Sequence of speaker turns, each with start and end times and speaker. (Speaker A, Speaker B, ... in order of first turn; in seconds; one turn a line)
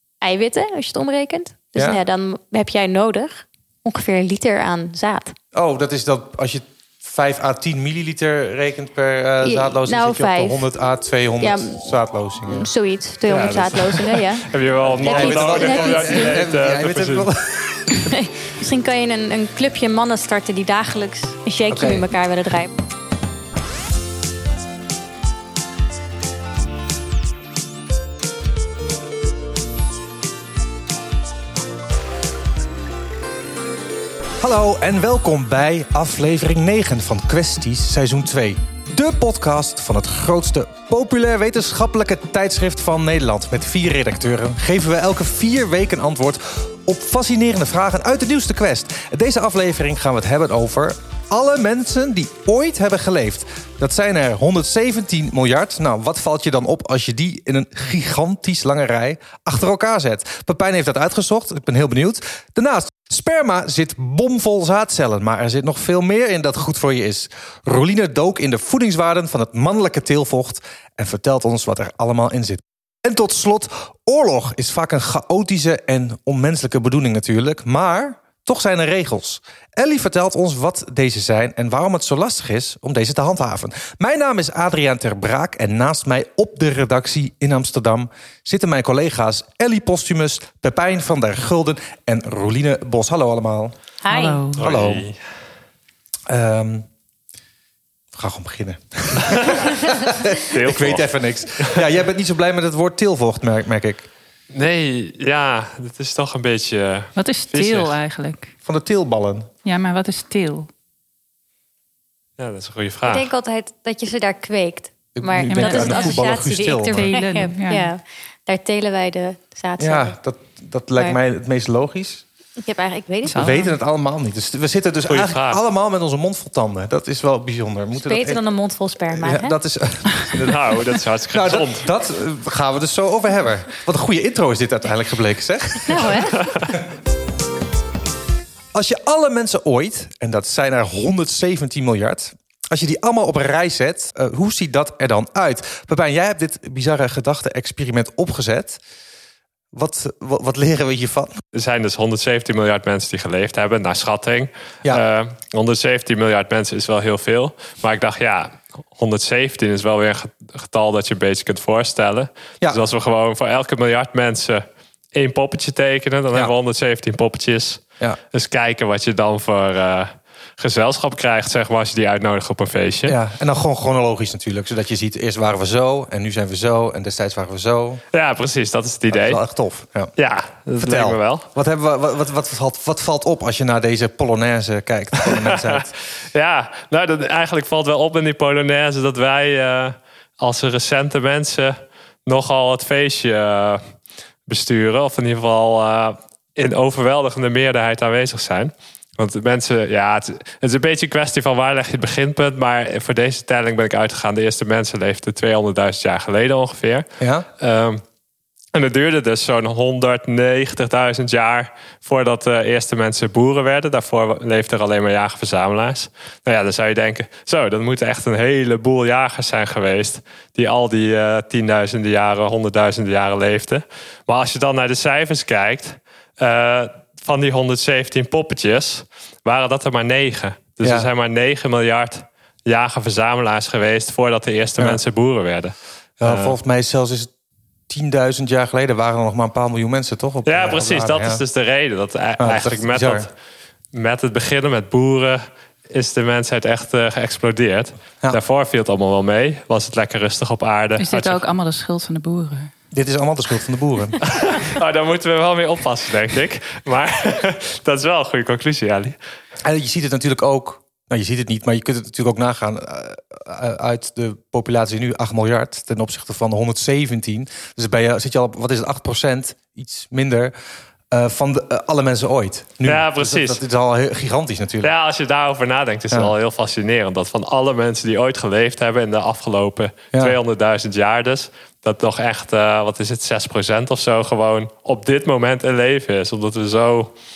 Speaker A: 0.2-5.3
Speaker B: 5.5-12.7
Speaker A: 9.4-10.6
Speaker A: 11.4-11.8
Speaker A: 12.4-14.5
Speaker C: 13.3-17.3
Speaker B: 14.8-18.1
Speaker A: 15.0-16.4
Speaker A: 18.0-22.7
Speaker B: 21.7-22.0
Speaker B: 34.4-93.7
Speaker A: 94.0-94.4
Speaker D: 94.1-94.6
Speaker B: 94.5-95.0
Speaker C: 94.5-95.2
Speaker B: 96.3-96.9
Speaker B: 98.1-104.1
Speaker C: 99.3-99.6
Speaker C: 100.3-101.8
Speaker C: 104.5-107.9
Speaker D: 107.2-108.5
Speaker B: 108.7-109.5
Speaker D: 109.6-110.7
Speaker C: 112.4-113.2
Speaker A: 113.0-120.2
Speaker B: 115.1-117.1
Speaker D: 115.5-117.9
Speaker B: 119.8-122.2
Speaker A: 122.6-123.6
Speaker D: 123.2-123.7
Speaker B: 123.3-128.4
Speaker C: 125.1-125.6
Speaker A: 127.9-129.5
Speaker B: 129.1-136.2
Speaker C: 130.3-131.8
Speaker A: 135.9-136.5
Speaker C: 136.4-136.7
Speaker B: 138.7-148.8
Speaker B: 149.7-151.4
Speaker C: 151.5-173.2
Speaker B: 173.1-178.0
Speaker C: 178.1-179.4
Speaker B: 179.1-180.1
Speaker C: 180.2-181.4
Speaker B: 180.8-185.9
Speaker C: 185.2-193.8
Speaker C: 194.5-207.1
Speaker B: 207.2-207.5
Speaker C: 207.6-208.0
Speaker C: 208.7-236.5
Speaker B: 230.8-231.1
Speaker B: 236.2-237.3
Speaker B: 237.9-241.4
Speaker C: 240.4-243.3
Speaker B: 242.4-243.3
Speaker C: 243.9-251.4
Speaker D: 251.0-252.7
Speaker B: 252.9-254.2
Speaker C: 254.2-259.1
Speaker B: 259.6-270.5
Speaker B: 271.1-274.9
Speaker C: 272.8-273.6
Speaker C: 274.8-287.1